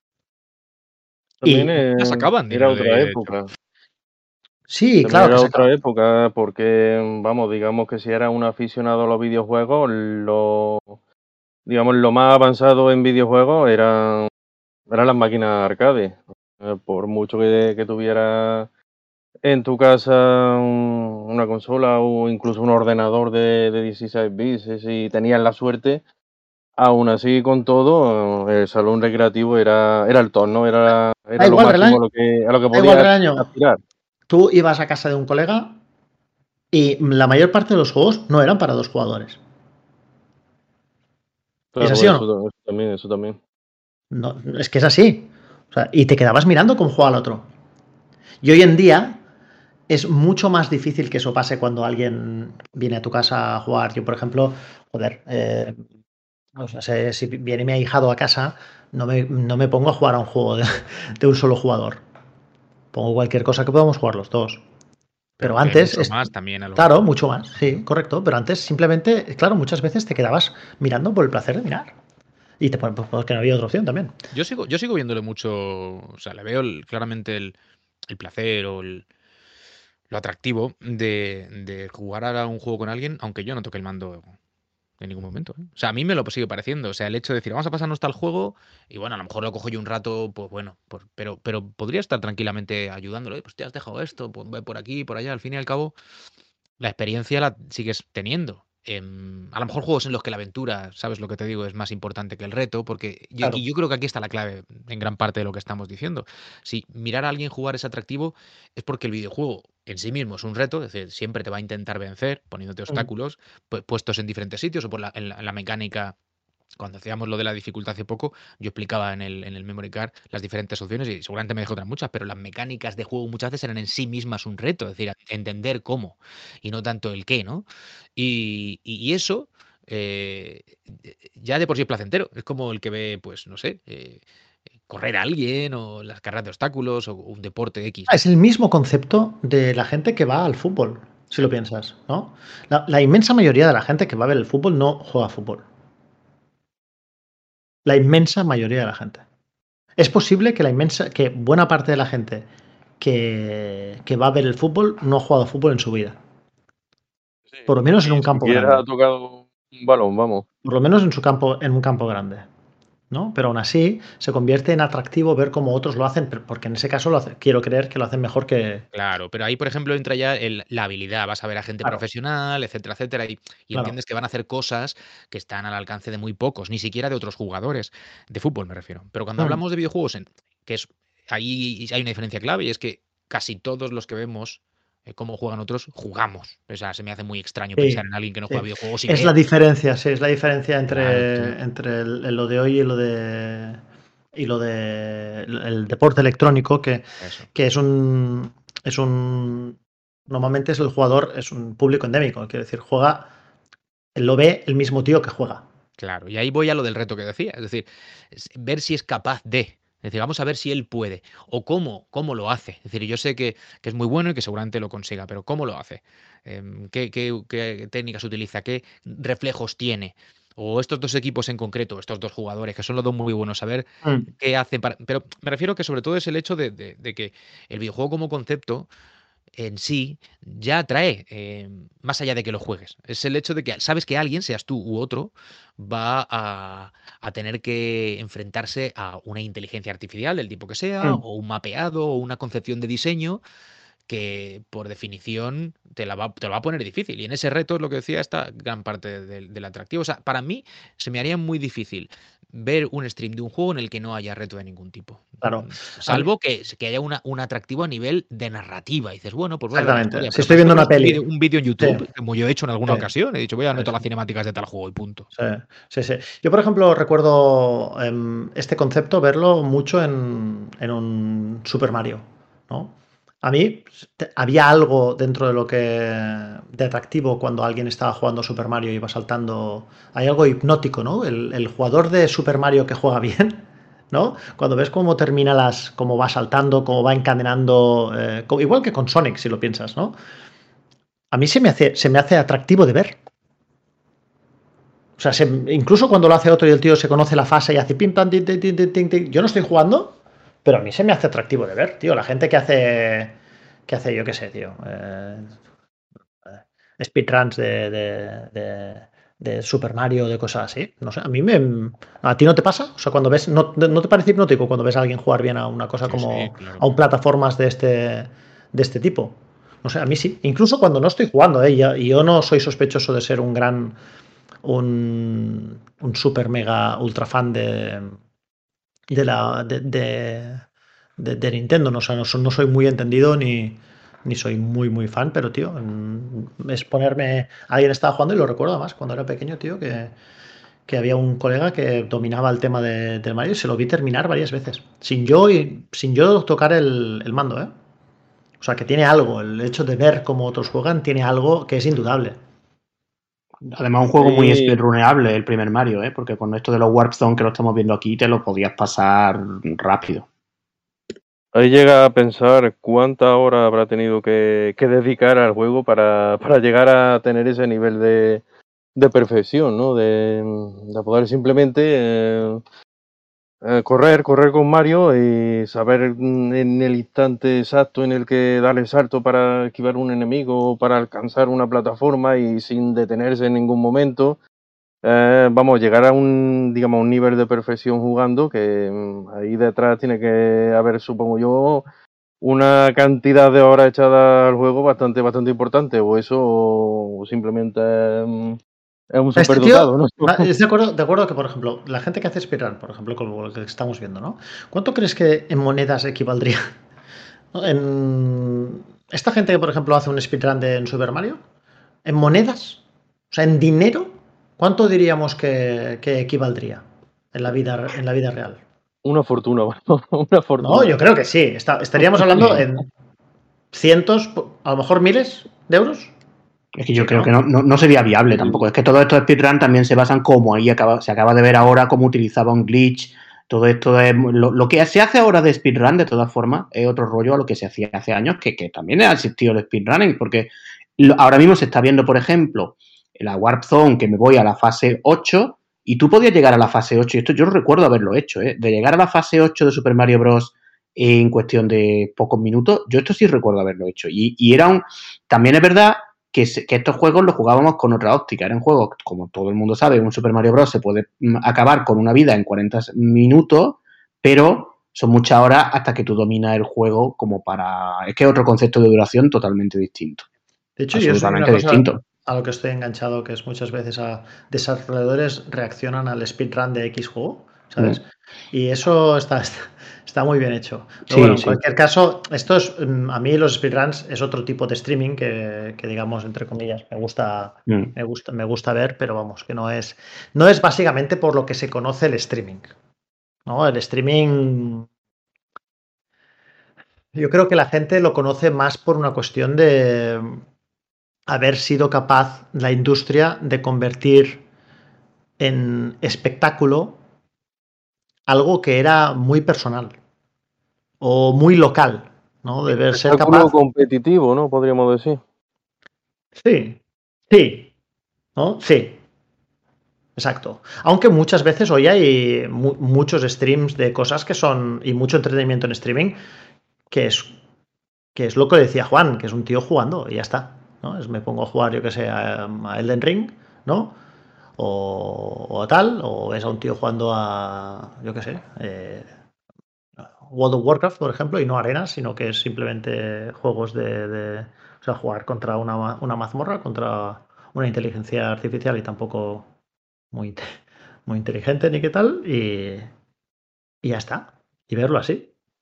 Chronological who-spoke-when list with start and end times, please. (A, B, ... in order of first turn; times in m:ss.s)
0:01.4-0:03.5 A
0:01.4-0:01.8 B
0:02.0-0:03.3 C
0:04.7-0:05.6 B
0:05.0-0:11.0 A
0:11.6-0:14.3 A
0:14.9-0:18.7 A
0:19.4-0:26.0 A
0:26.8-0:33.8 A
0:31.4-0:32.0 B
0:32.7-0:33.5 B
0:34.3-0:35.8 B
0:36.7-0:39.4 B
0:41.8-0:43.4 A
0:41.8-0:42.2 B
0:44.1-0:47.5 B
0:48.4-0:49.2 B
0:49.9-0:55.8 B
0:56.6-1:02.0 B
1:02.9-1:04.6 B
1:05.4-1:07.1 C
1:05.4-1:11.9 B
1:12.6-1:14.1 B
1:14.3-1:17.6 C
1:18.1-1:19.0 C
1:20.1-1:24.3 C
1:25.0-1:35.9 C
1:36.8-1:56.1 C
1:56.8-2:07.6 C
2:08.2-2:14.2 C
2:14.9-2:18.2 C
2:18.1-2:25.6 B
2:27.8-2:29.2 B
2:30.0-2:32.5 B
2:33.0-2:36.2 B
2:37.5-2:40.4 A
2:37.7-2:38.8 B
2:40.6-2:42.5 B
2:43.1-2:48.8 B
2:48.9-3:09.3 C
3:07.8-3:13.8 B
3:10.9-3:11.5 C
3:14.3-3:23.3 B
3:17.2-3:17.5 C
3:24.1-3:25.6 B
3:26.0-3:48.9 C
3:49.6-4:03.4 C
4:04.1-4:25.3 C
4:15.4-4:16.3 B
4:19.7-4:21.2 B
4:21.8-4:22.0 B
4:25.3-4:50.2 B
4:51.3-4:53.2 B
4:55.2-5:03.4 B
5:03.9-5:05.5 B
5:07.0-5:24.0 B
5:16.0-5:16.8 C
5:24.6-5:28.2 B
5:29.1-5:30.6 B
5:31.2-5:40.1 B
5:40.9-5:47.7 B
5:48.6-5:52.4 B
5:53.7-6:00.3 D
5:54.2-5:54.8 A
6:01.5-6:08.4 A
6:09.0-6:12.6 A
6:13.6-6:24.4 A
6:25.0-6:31.8 A
6:32.4-6:38.6 A
6:39.1-6:40.5 A
6:39.4-6:46.6 B
6:47.5-6:51.4 B
6:52.0-6:58.6 B
6:59.0-7:01.0 A
7:00.6-7:02.9 B
7:02.3-7:02.6 A
7:03.7-7:06.1 B
7:06.7-7:50.2 D
7:07.0-7:07.3 B
7:50.8-8:12.7 B
7:50.9-7:52.0 D
8:01.1-8:01.6 D
8:07.7-8:07.9 D
8:13.4-8:14.9 B
8:17.1-8:20.4 B
8:21.3-8:24.4 B
8:25.4-8:27.0 B
8:28.3-8:30.0 B
8:31.0-8:33.5 B
8:32.9-8:35.2 A
8:36.4-8:36.8 B
8:37.3-8:37.7 B
8:38.4-8:39.0 B
8:40.2-8:46.2 B
8:46.9-8:47.3 B
8:48.1-8:54.0 B
8:54.6-8:59.1 B
9:00.0-9:09.5 B
9:10.1-9:10.5 B
9:11.1-9:12.9 B
9:13.8-9:15.3 B